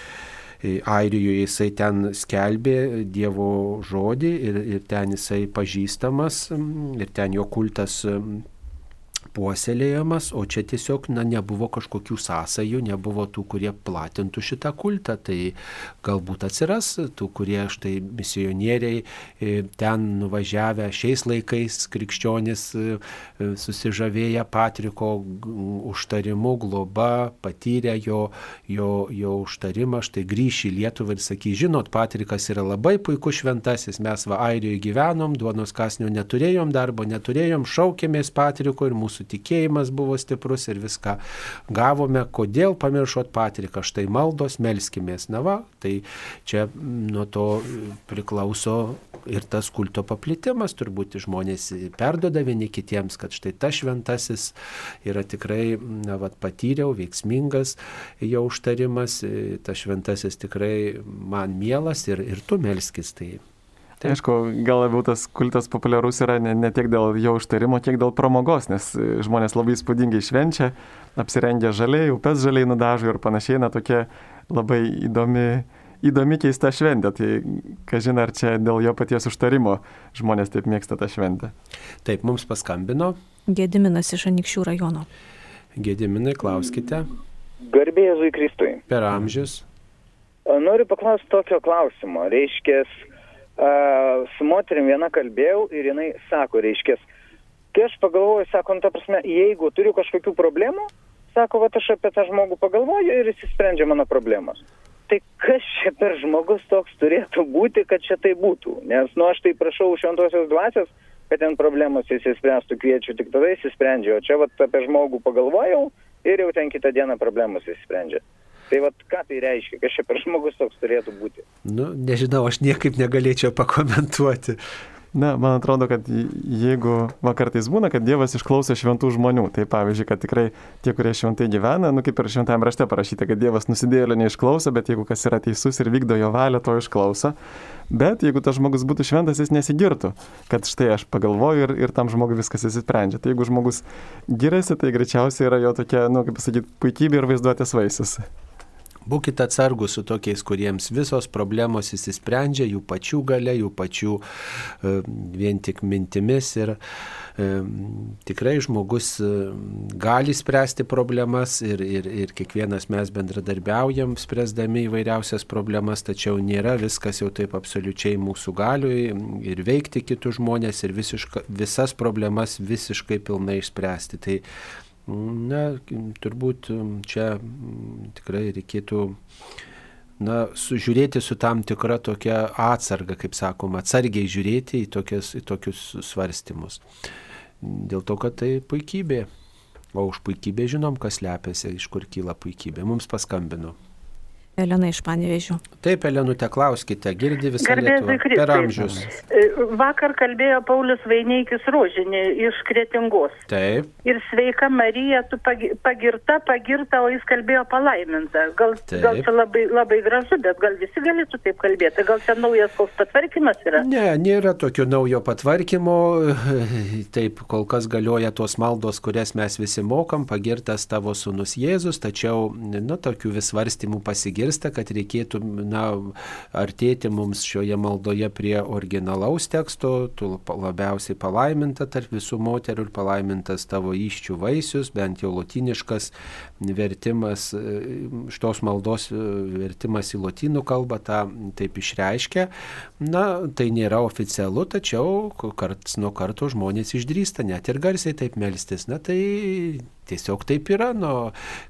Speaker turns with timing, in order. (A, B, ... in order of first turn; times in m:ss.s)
0:00.6-0:08.4 A
0:09.3-1:03.4 A
1:04.0-1:21.5 B
1:22.0-1:23.2 A
1:23.5-1:25.1 C
1:25.8-1:27.1 A
1:27.6-1:28.8 D
1:28.9-1:29.7 A
1:30.5-1:33.1 D
1:33.6-1:37.0 D
1:37.7-2:01.4 D
2:01.6-2:04.6 A
2:05.1-2:17.4 B
2:17.9-2:28.3 B
2:29.1-2:34.2 A
2:34.8-2:36.8 A
2:37.4-2:54.4 A
2:55.1-2:59.2 A
3:00.2-3:06.8 A
3:07.6-3:09.3 A
3:09.9-3:13.8 A
3:14.6-3:15.6 C
3:15.8-3:19.1 A
3:17.6-3:23.4 E
3:23.5-3:23.9 A
3:24.0-3:33.8 E
3:28.9-3:29.3 A
3:33.8-4:11.3 A